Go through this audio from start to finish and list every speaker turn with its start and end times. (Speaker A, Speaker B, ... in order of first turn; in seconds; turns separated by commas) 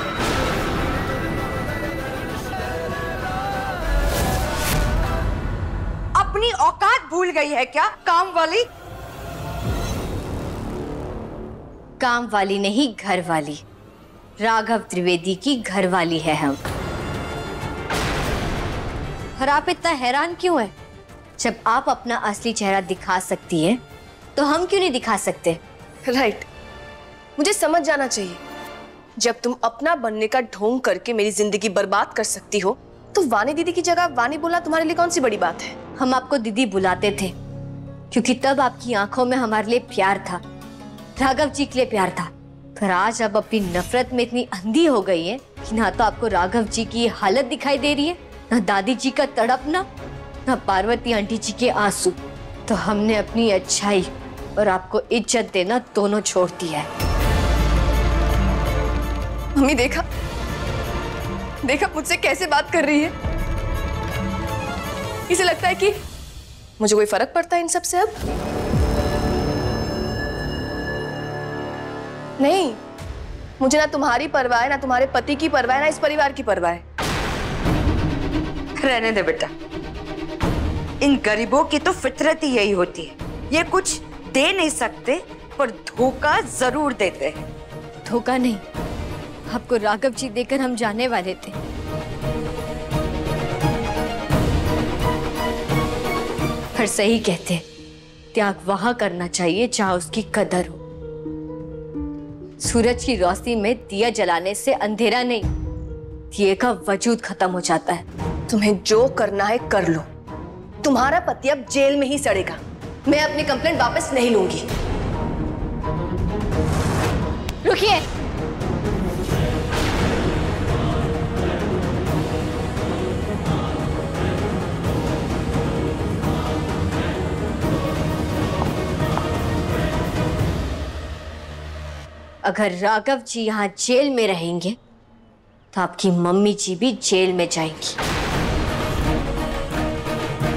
Speaker A: 6.2-8.7, Speaker B: 12.0-13.6, Speaker B: 14.4-16.6, Speaker B: 19.4-20.7, Speaker B: 21.4-23.8, Speaker B: 24.4-25.6, Speaker C: 26.1-26.4, Speaker C: 27.4-28.4, Speaker C: 29.2-35.7, Speaker B: 36.0-37.3, Speaker B: 38.1-40.4, Speaker B: 41.2-49.8, Speaker B: 50.5-56.9, Speaker C: 59.6-60.0, Speaker C: 61.6-63.1, Speaker C: 65.3-65.9, Speaker C: 66.8-68.1, Speaker C: 72.4-72.8, Speaker C: 73.6-76.8, Speaker A: 78.8-79.5, Speaker A: 81.0-87.4, Speaker B: 88.0-88.6, Speaker B: 89.5-91.6, Speaker B: 96.7-97.6, Speaker B: 98.3-100.8, Speaker B: 102.6-105.5, Speaker B: 106.3-108.0, Speaker C: 108.5-110.0, Speaker C: 110.8-112.6, Speaker C: 113.4-114.6, Speaker B: 117.6-118.0, Speaker B: 132.4-134.8, Speaker B: 135.7-138.0